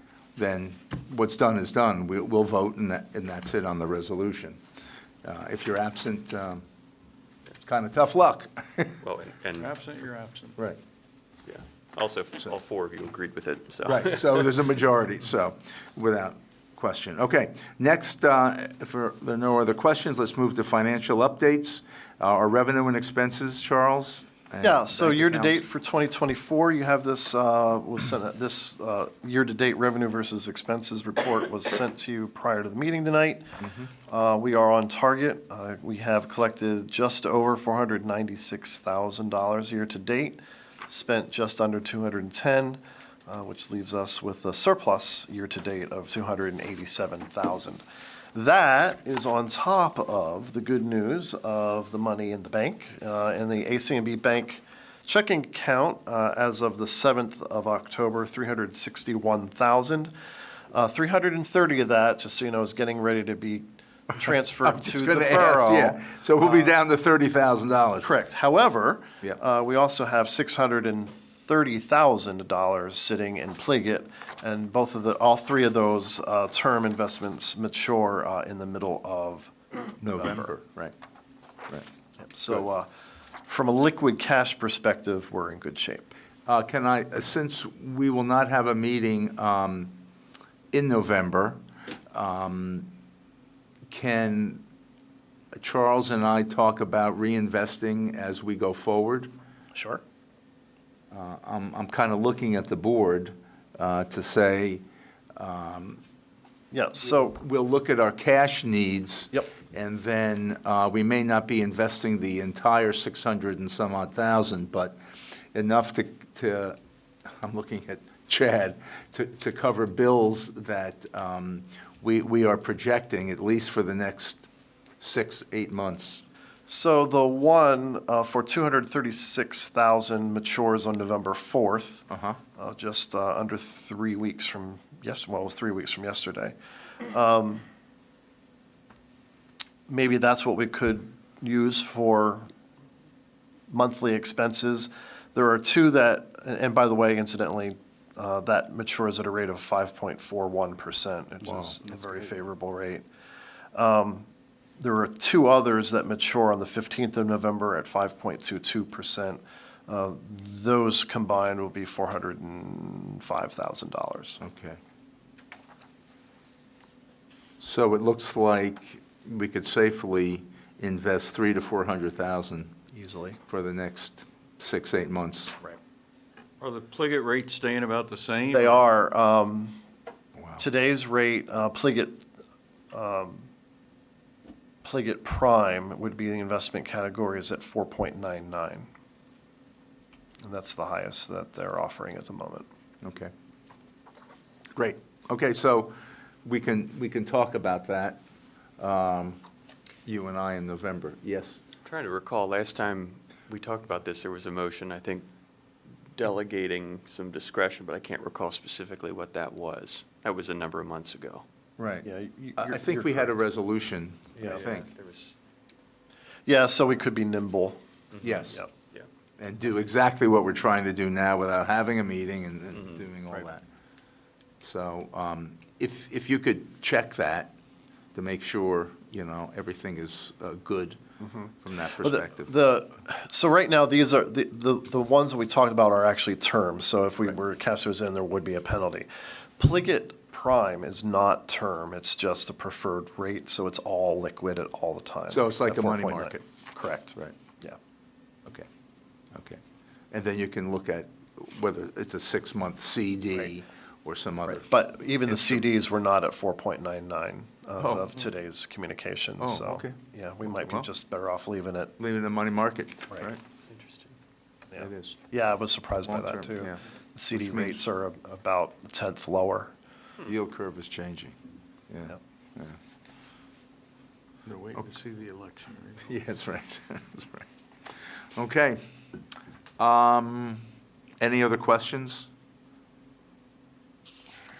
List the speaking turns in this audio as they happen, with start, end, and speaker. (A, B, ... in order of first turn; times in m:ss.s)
0:00.4-0:04.6 A
0:05.2-0:06.6 A
0:07.6-0:09.0 A
0:09.0-0:09.7 B
0:09.6-0:10.6 C
0:11.5-0:14.4 B
0:13.8-0:25.6 A
0:24.6-0:33.5 D
0:34.1-0:47.8 D
0:48.3-1:00.1 D
1:00.7-1:06.7 D
1:04.1-1:08.1 A
1:08.0-1:20.5 D
1:20.0-1:20.9 A
1:22.2-1:22.9 D
1:23.4-1:26.1 D
1:26.4-1:30.0 A
1:30.7-1:31.6 A
1:32.1-1:32.9 A
1:33.9-1:34.6 A
1:35.6-1:39.3 A
1:39.7-1:40.0 D
1:41.1-1:44.8 A
1:45.3-1:46.0 A
1:46.7-1:47.4 D
1:47.0-1:55.0 A
1:55.5-2:04.5 A
2:05.0-2:06.2 A
2:06.7-2:12.0 D
2:12.1-2:12.4 A
2:12.6-2:16.6 D
2:17.1-2:17.6 D
2:19.9-2:22.5 D
2:23.7-2:33.0 D
2:31.5-2:31.7 A
2:33.8-2:34.3 D
2:34.8-2:44.4 D
2:44.4-2:44.8 A
2:47.6-2:52.8 A
2:52.9-2:53.4 D
2:53.5-2:55.6 A
2:56.6-2:58.8 C
2:58.5-2:59.7 D
3:00.6-3:02.3 D
3:02.9-3:03.5 D
3:04.8-3:08.9 D
3:10.4-3:12.7 D
3:13.0-3:13.3 A
3:14.8-3:18.2 A
3:18.8-3:19.4 A
3:20.1-3:21.6 A
3:21.8-3:25.3 B
3:26.1-3:31.4 B
3:31.8-3:34.9 A
3:32.0-3:33.4 D
3:34.4-3:35.4 B
3:34.4-3:34.6 D
3:36.5-3:37.8 D
3:38.2-3:38.6 A
3:38.4-3:38.7 D
3:39.4-3:43.6 A
3:44.6-3:47.5 A
3:48.1-3:51.0 A
3:51.2-3:59.1 D
3:51.6-3:52.5 A
3:59.6-4:07.8 D
4:05.3-4:06.4 A
4:09.3-4:14.7 A
4:14.5-4:21.9 D
4:15.3-4:15.6 A
4:17.8-4:18.2 A
4:19.4-4:20.9 A
4:22.0-4:23.4 A
4:23.7-4:24.2 B
4:24.7-4:29.7 D
4:24.8-4:25.2 A
4:26.1-4:26.8 A
4:27.3-4:27.8 A
4:30.2-4:31.3 A
4:31.9-4:32.8 A
4:34.5-4:34.8 A
4:34.6-4:36.1 C
4:36.1-4:37.5 A
4:38.4-4:38.8 A
4:39.8-4:40.6 A
4:41.2-4:42.3 A